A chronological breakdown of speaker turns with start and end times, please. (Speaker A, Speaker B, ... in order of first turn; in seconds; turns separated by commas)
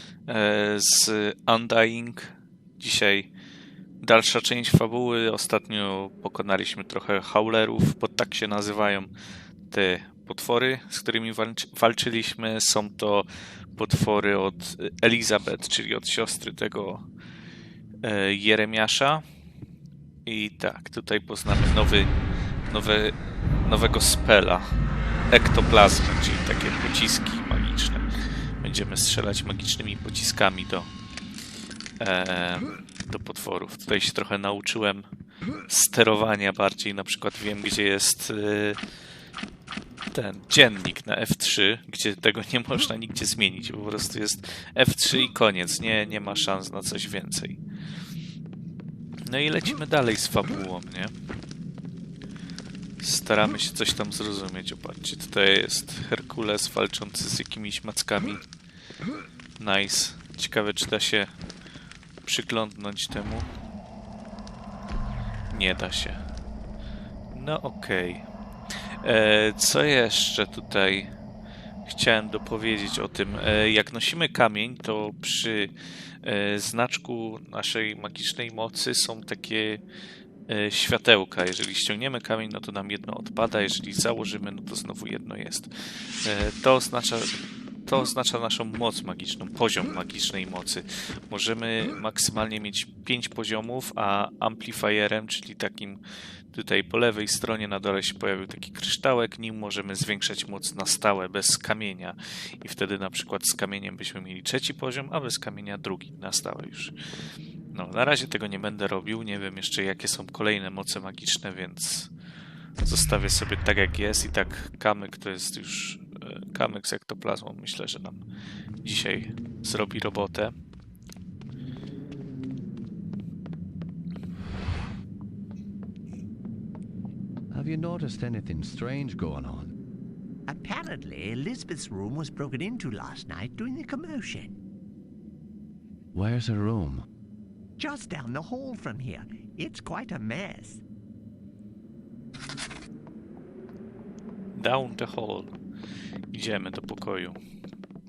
Speaker A: 0.3-3.3, Speaker A: 4.0-9.1, Speaker A: 9.7-17.1, Speaker A: 18.0-19.2, Speaker A: 20.3-22.1, Speaker A: 22.7-24.8, Speaker A: 25.3-28.1, Speaker A: 28.6-30.9, Speaker A: 32.0-35.1, Speaker A: 35.7-38.8, Speaker A: 40.1-47.6, Speaker A: 49.3-51.1, Speaker A: 53.0-58.4, Speaker A: 59.6-61.3, Speaker A: 62.2-63.5, Speaker A: 65.5-66.2, Speaker A: 67.3-68.2, Speaker A: 69.0-71.1, Speaker A: 71.8-75.7, Speaker A: 76.2-79.8, Speaker A: 80.5-96.0, Speaker A: 96.5-106.9, Speaker A: 107.7-112.1, Speaker A: 112.8-118.2, Speaker A: 118.8-120.5, Speaker B: 127.5-129.7, Speaker C: 130.5-134.6, Speaker B: 136.1-137.1, Speaker C: 137.8-140.8, Speaker A: 144.6-145.5, Speaker A: 146.3-147.4